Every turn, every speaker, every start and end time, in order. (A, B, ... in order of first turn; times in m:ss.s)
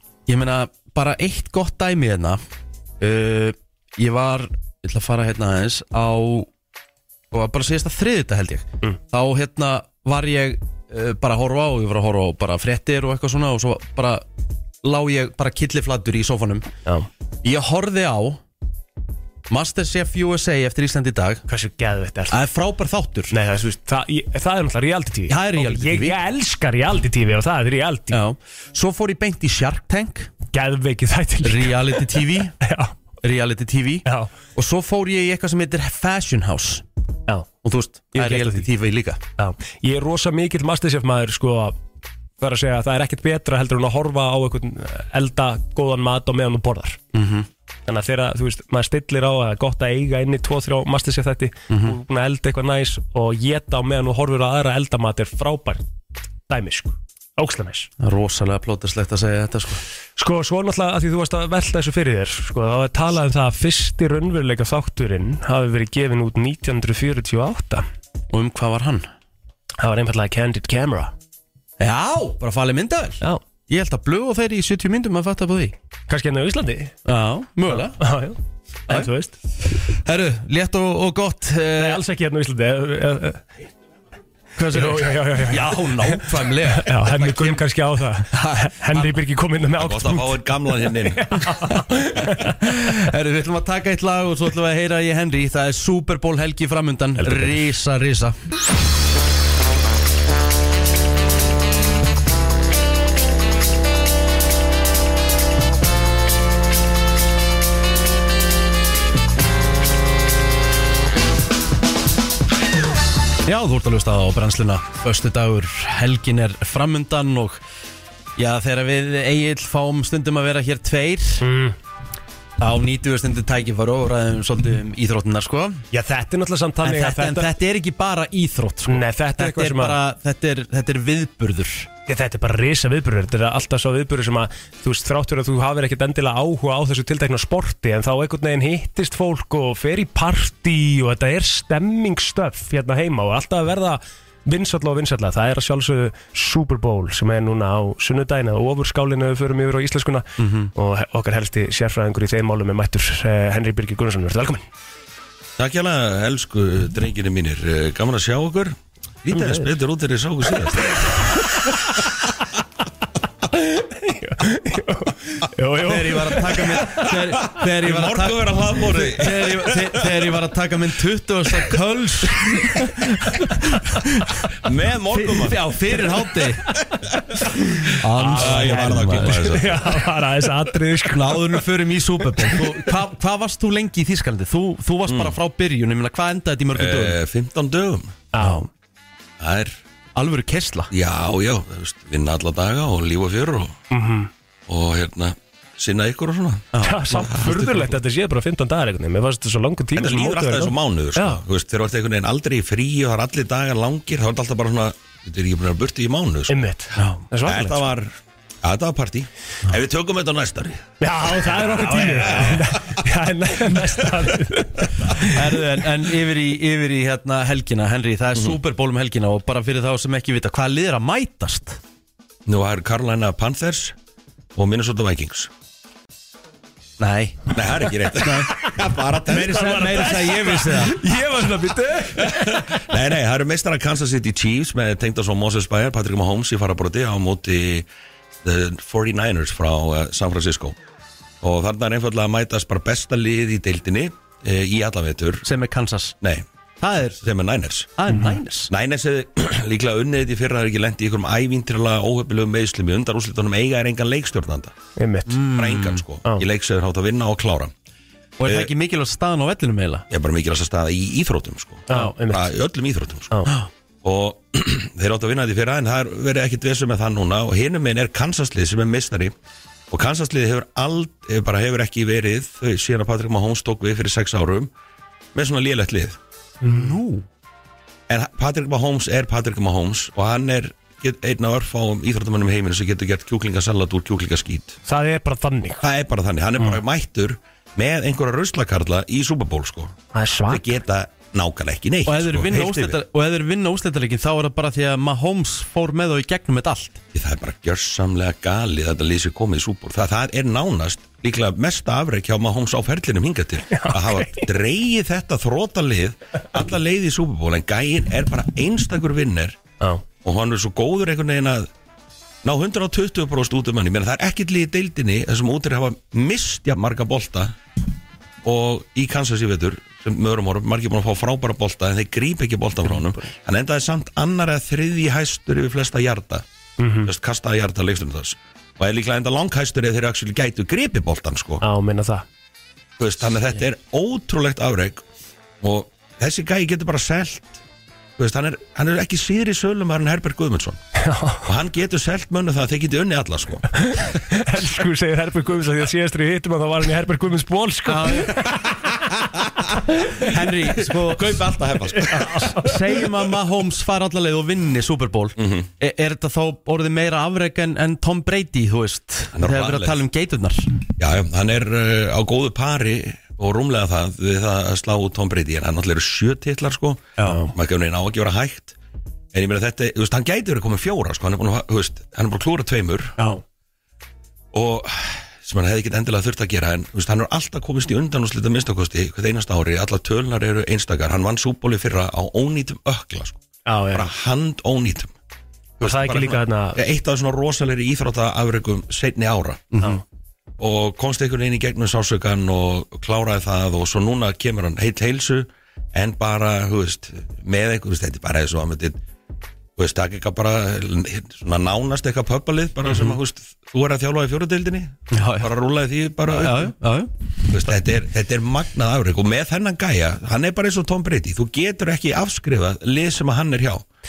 0:00.3-0:02.4 A
0:03.0-0:06.5 A
0:07.3-0:14.3 A
0:14.8-0:16.7 A
0:17.4-0:18.4 A
0:19.5-0:21.4 A
0:21.5-0:22.4 B
0:22.3-0:23.3 A
0:23.3-0:28.2 B
0:25.3-0:26.2 A
0:28.1-0:30.3 A
0:30.5-0:32.9 B
0:31.4-0:32.5 A
0:33.2-0:36.8 A
0:34.0-0:34.3 B
0:37.6-0:39.2 A
0:38.1-0:38.7 B
0:39.4-0:41.8 B
0:42.4-0:47.0 B
0:47.1-0:47.5 A
0:47.9-0:55.8 B
0:51.7-0:52.0 A
0:56.5-0:57.9 B
0:58.0-0:59.8 A
1:00.2-1:07.9 B
1:08.3-1:09.1 A
1:09.8-1:11.1 B
1:11.8-1:15.8 A
1:16.1-1:17.0 B
1:17.0-1:18.0 A
1:17.7-1:19.4 B
1:19.6-1:22.0 A
1:21.8-1:23.4 B
1:24.6-1:27.6 A
1:24.7-1:32.5 B
1:28.3-1:29.2 A
1:29.8-1:31.3 C
1:32.4-1:38.4 A
1:37.2-1:37.5 B
1:53.4-1:57.6 A
1:58.4-2:01.4 A
2:01.4-2:01.8 B
2:02.6-2:05.8 A
2:05.9-2:07.5 B
2:06.8-2:11.9 A
2:08.9-2:10.0 B
2:12.1-2:34.6 B
2:30.4-2:30.7 A
2:35.6-2:41.2 C
2:39.3-2:39.7 B
2:43.5-2:47.1 B
2:45.8-2:54.2 A
2:47.8-2:50.0 C
2:54.6-2:55.7 C
2:55.1-2:56.7 A
2:57.9-3:01.6 B
2:58.0-2:59.8 A
2:58.2-3:00.0 C
3:01.0-3:07.2 A
3:05.1-3:05.4 C
3:06.8-3:08.3 C
3:08.3-3:08.7 B
3:08.4-3:08.7 A
3:09.4-3:09.8 C
3:10.2-3:10.9 A
3:10.9-3:13.8 C
3:13.9-3:14.3 B
3:14.7-3:17.9 C
3:16.7-3:17.7 A
3:16.8-3:21.4 B
3:20.0-3:26.6 C
3:26.5-3:27.8 B
3:27.0-3:27.2 A
3:27.4-3:30.9 C
3:31.0-3:35.4 B
3:31.7-3:32.6 A
3:32.0-3:32.6 C
3:35.2-3:41.8 A
3:42.5-3:44.0 C
3:44.6-3:45.5 C
3:47.0-3:48.5 A
3:47.5-3:50.9 C
3:49.2-3:51.0 A
3:49.3-3:52.8 B
3:52.2-3:57.9 C
3:58.4-4:00.8 C
4:01.4-4:05.4 C
4:05.4-4:06.2 A
4:06.2-4:06.5 C
4:06.8-4:07.2 A
4:07.1-4:08.0 C
4:08.0-4:08.7 A
4:08.1-4:08.4 B
4:08.7-4:14.7 C
4:15.0-4:15.4 B
4:15.3-4:16.0 A
4:15.5-4:17.7 C
4:18.4-4:20.0 A
4:18.4-4:18.7 C
4:20.1-4:23.4 C
4:21.9-4:22.5 B
4:24.0-4:29.3 C
4:29.9-4:34.7 C
4:35.3-4:36.2 C
4:36.6-4:37.0 B
4:36.7-4:37.2 A
4:38.1-4:44.8 C
4:44.9-4:45.8 B
4:45.8-4:50.0 C
4:50.1-4:50.8 B
4:50.5-4:53.0 C
4:52.1-4:57.0 A
4:57.1-5:09.6 C
5:03.7-5:04.5 B
5:10.2-5:11.7 C
5:12.4-5:17.6 C
5:18.4-5:26.4 C
5:22.9-5:23.2 B
5:26.8-5:27.1 B
5:27.0-5:31.6 C
5:31.6-5:32.2 B
5:33.0-5:35.0 C
5:35.6-5:37.6 C
5:38.2-5:40.8 C
5:41.0-5:41.5 B
5:41.4-5:43.7 C
5:43.8-5:49.0 B
5:47.9-5:48.5 A
5:50.0-6:00.7 A
5:51.0-5:52.5 C
5:52.0-5:53.0 B
5:55.4-5:55.7 C
5:59.3-6:00.0 C
6:01.0-6:08.8 C
6:07.2-6:07.4 A
6:07.3-6:07.5 B
6:09.3-6:13.2 C
6:14.5-6:25.1 C
6:23.7-6:24.1 B
6:25.8-6:29.7 C
6:25.8-6:26.8 B
6:29.7-6:30.0 A
6:30.6-6:39.0 C
6:39.8-6:46.8 C
6:42.8-6:43.2 A
6:45.1-6:45.5 A
6:46.3-6:47.1 A
6:47.5-6:53.9 C